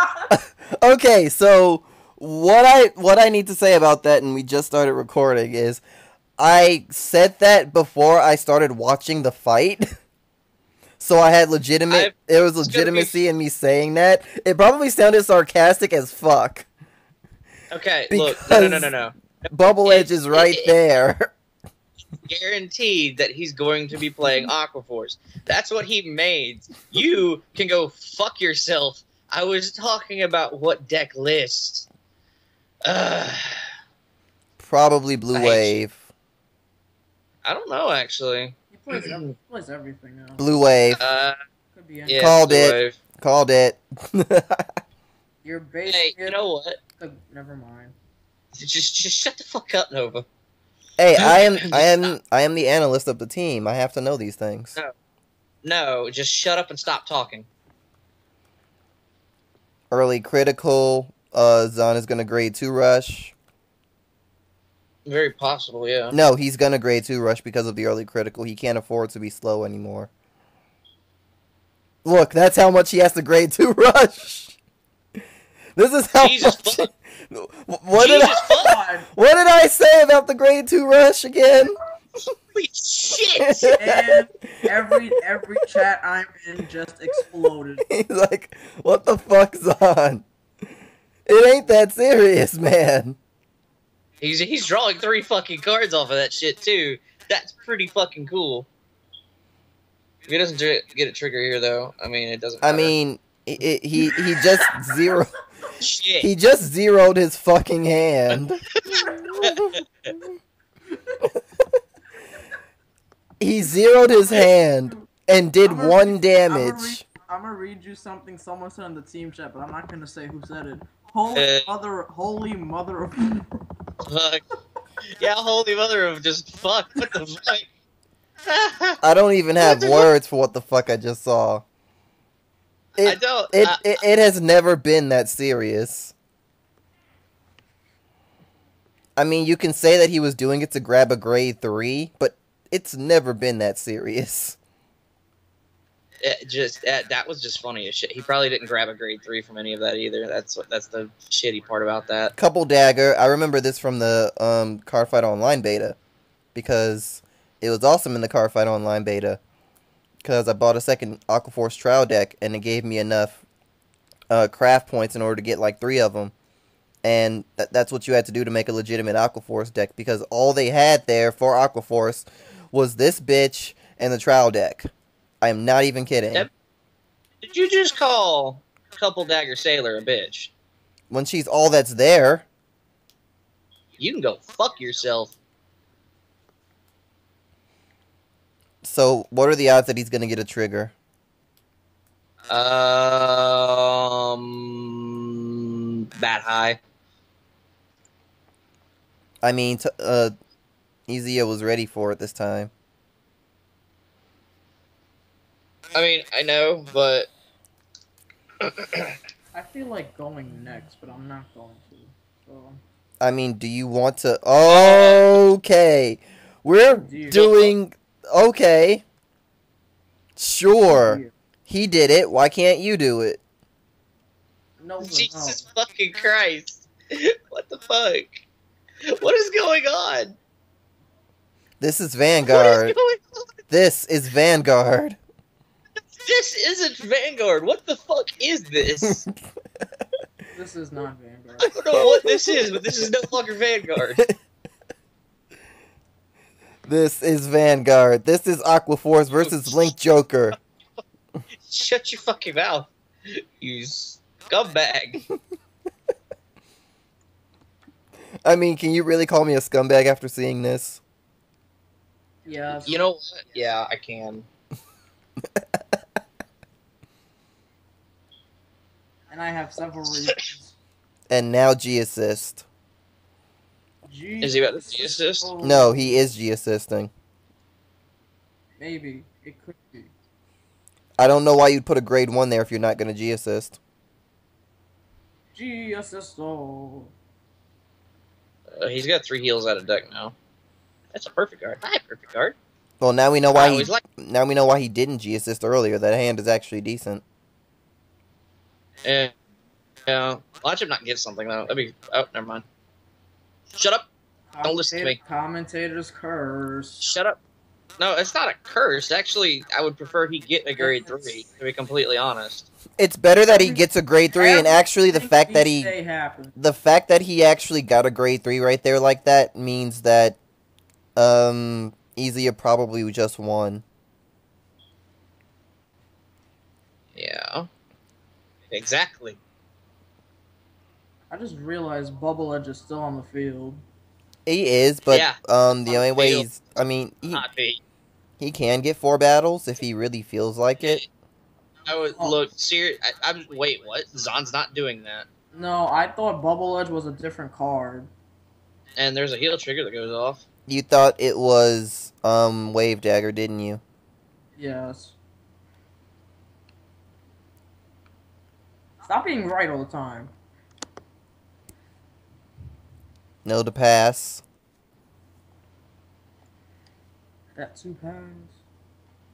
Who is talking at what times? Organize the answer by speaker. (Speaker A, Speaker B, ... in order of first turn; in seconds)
Speaker A: 0.3-5.8, 6.4-9.9, 11.0-16.7, 18.1-18.9, 19.5-21.3, 34.6-36.0, 40.4-41.0, 42.2-44.7, 51.0-54.8, 59.9-63.3, 66.1-70.1, 72.0-74.5, 75.8-81.8, 83.4-84.7, 87.9-90.2, 91.3-93.2, 102.6-105.3, 106.2-110.2, 113.4-117.0, 129.0-131.6, 133.0-136.1, 139.2-144.6, 152.3-155.9, 156.5-159.4, 160.2-163.4, 164.3-166.3, 167.0-174.9, 175.4-176.5, 181.1-182.5, 188.8-190.9, 199.4-200.3, 201.1-202.7, 213.2-219.0, 220.4-223.4, 231.8-232.9, 233.7-235.2, 241.9-242.7, 246.8-250.6, 258.4-261.0, 271.3-272.6, 275.6-277.1, 281.2-283.8, 293.0-297.2, 313.0-315.9, 316.6-320.4, 321.1-323.8, 334.4-337.4, 338.4-341.0, 350.7-353.8, 363.4-364.4
Speaker B: 11.9-13.2, 17.7-19.1, 19.8-20.7, 22.3-31.9, 32.8-33.6, 35.3-35.8, 37.4-39.3, 41.0-41.4, 42.0-43.0, 45.9-46.8, 48.6-50.2, 51.2-52.1, 55.6-57.5, 65.0-66.2, 76.2-76.9, 77.9-78.8, 82.5-83.8, 94.2-98.7, 100.3-102.9, 105.8-106.3, 108.8-109.8, 121.3-121.7, 124.0-124.4, 125.2-127.7, 128.4-129.0, 129.6-130.1, 133.0-134.0, 146.2-152.3, 177.4-180.5, 184.0-185.3, 192.5-195.2, 196.1-196.8, 205.9-207.3, 208.6-209.1, 214.7-215.3, 225.0-228.4, 229.1-230.3, 232.4-233.4, 236.2-239.3, 241.6-244.3, 249.3-249.9, 251.7-255.2, 262.9-264.4, 274.4-275.5, 288.8-290.3, 291.1-292.6, 293.5-294.0, 299.0-299.3, 300.1-302.6, 303.7-304.1, 304.6-305.2, 307.0-307.4, 308.0-312.7, 327.1-327.7, 328.7-329.4, 335.1-336.5, 337.3-337.8, 341.8-345.3, 348.9-350.4
Speaker C: 38.7-40.5, 41.7-42.4, 45.4-46.4, 47.0-47.9, 78.3-79.1, 83.8-87.8, 114.3-115.1, 115.6-123.6, 209.5-212.8, 216.9-217.6, 220.9-221.3, 224.8-225.6, 240.5-241.8, 262.4-263.0, 269.3-270.7, 274.0-276.2, 278.8-280.1, 285.5-287.1, 304.5-307.1, 310.8-311.4, 313.5-316.5, 331.3-333.8, 345.5-348.1, 354.6-355.1, 359.0-360.3, 367.6-368.6